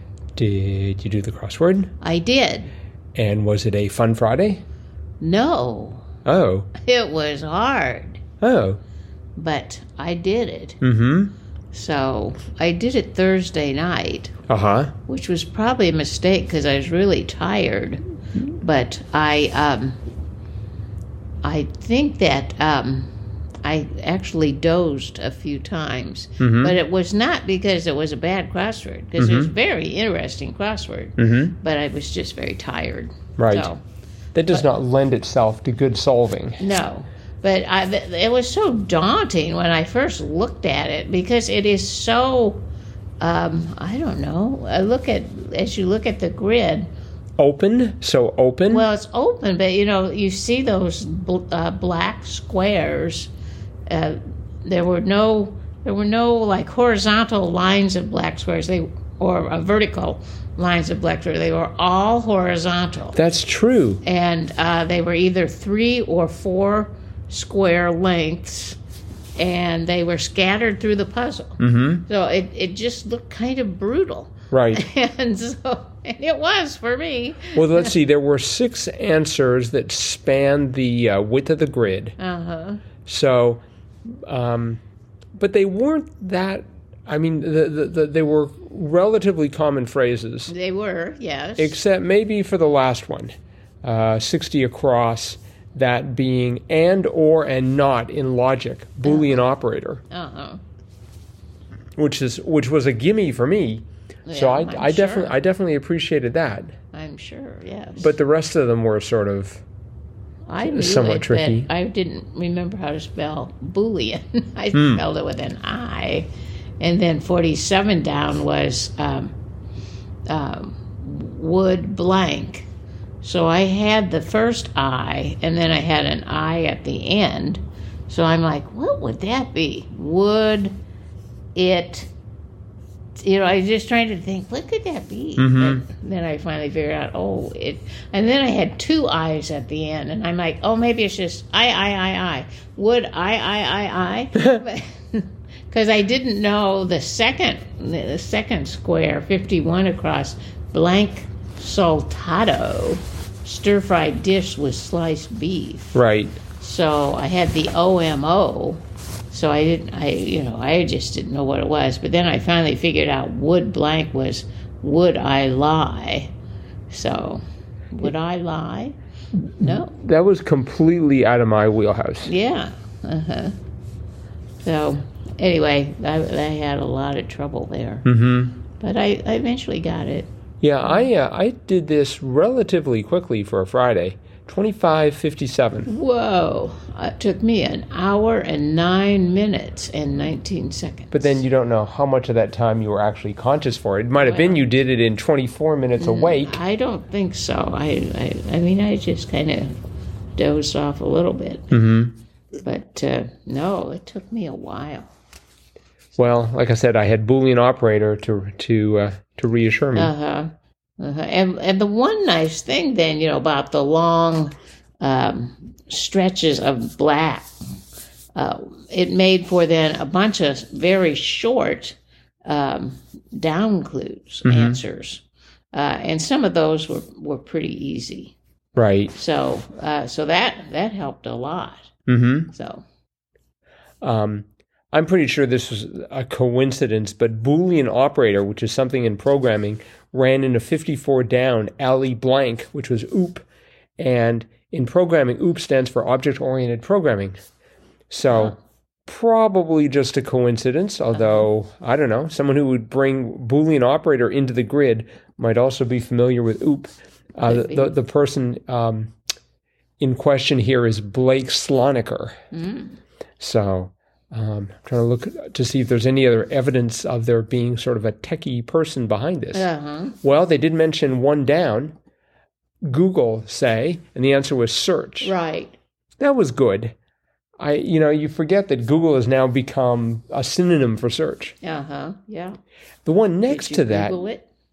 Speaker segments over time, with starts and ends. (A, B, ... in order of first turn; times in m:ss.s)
0:00.4-0:01.9 A
0:02.0-0:02.7 B
0:03.2-0:04.6 A
0:05.2-0:06.1 B
0:06.2-0:06.7 A
0:06.8-0:08.2 B
0:08.4-0:08.8 A
0:09.4-0:10.8 B
0:10.8-0:11.3 A
0:11.7-0:14.3 B
0:14.5-0:14.9 A
0:15.1-0:18.0 B
0:18.6-0:20.0 B
0:21.4-0:33.8 B
0:26.4-0:26.8 A
0:29.2-0:29.5 A
0:31.2-0:31.5 A
0:33.4-0:33.7 A
0:34.3-0:36.6 A
0:36.6-0:42.7 B
0:43.2-0:46.9 B
0:47.4-0:48.9 A
0:48.7-0:53.3 B
0:53.9-1:03.2 B
1:03.1-1:04.0 A
1:04.0-1:08.8 B
1:09.4-1:17.9 B
1:11.6-1:12.0 A
1:14.5-1:14.8 A
1:17.5-1:22.2 A
1:22.2-1:22.8 B
1:23.0-1:24.8 A
1:25.4-1:30.5 A
1:30.5-1:31.8 B
1:31.6-1:40.0 A
1:39.0-1:39.4 B
1:40.1-1:40.6 B
1:42.0-1:46.7 A
1:44.3-1:45.4 B
1:46.9-1:48.1 B
1:48.0-1:49.6 A
1:50.5-1:59.4 B
1:50.6-1:51.7 A
1:54.7-1:55.0 A
2:00.3-2:02.7 B
2:03.2-2:10.8 B
2:11.5-2:12.1 B
2:13.2-2:35.9 B
2:15.4-2:15.8 A
2:35.9-2:36.4 A
2:36.6-2:46.3 B
2:46.9-2:49.0 B
2:49.4-2:52.3 A
2:49.6-2:49.9 B
2:52.2-2:53.5 B
2:54.6-2:58.0 B
2:58.0-2:58.6 A
2:58.7-3:00.3 B
3:00.6-3:05.9 A
3:05.8-3:11.4 B
3:11.1-3:16.6 A
3:14.2-3:14.7 B
3:16.0-3:19.8 B
3:20.4-3:21.8 B
3:21.7-3:22.2 A
3:22.6-3:25.1 B
3:26.2-3:30.1 A
3:30.0-3:37.5 B
3:38.3-3:48.3 B
3:44.4-3:44.8 A
3:48.8-3:49.2 A
3:49.1-3:51.9 B
3:52.1-3:52.5 A
3:52.5-3:52.8 B
3:54.0-4:03.4 A
4:04.0-4:07.4 A
4:08.1-4:19.1 A
4:08.3-4:08.5 B
4:11.1-4:11.5 B
4:17.4-4:17.9 B
4:20.0-4:22.4 A
4:22.5-4:23.0 B
4:23.4-4:29.7 A
4:29.5-4:30.2 B
4:30.2-4:31.9 A
4:32.8-4:35.3 A
4:35.2-4:35.7 B
4:36.2-4:36.9 A
4:37.6-4:41.6 A
4:41.6-4:42.6 B
4:43.0-4:44.2 A
4:43.5-4:44.5 B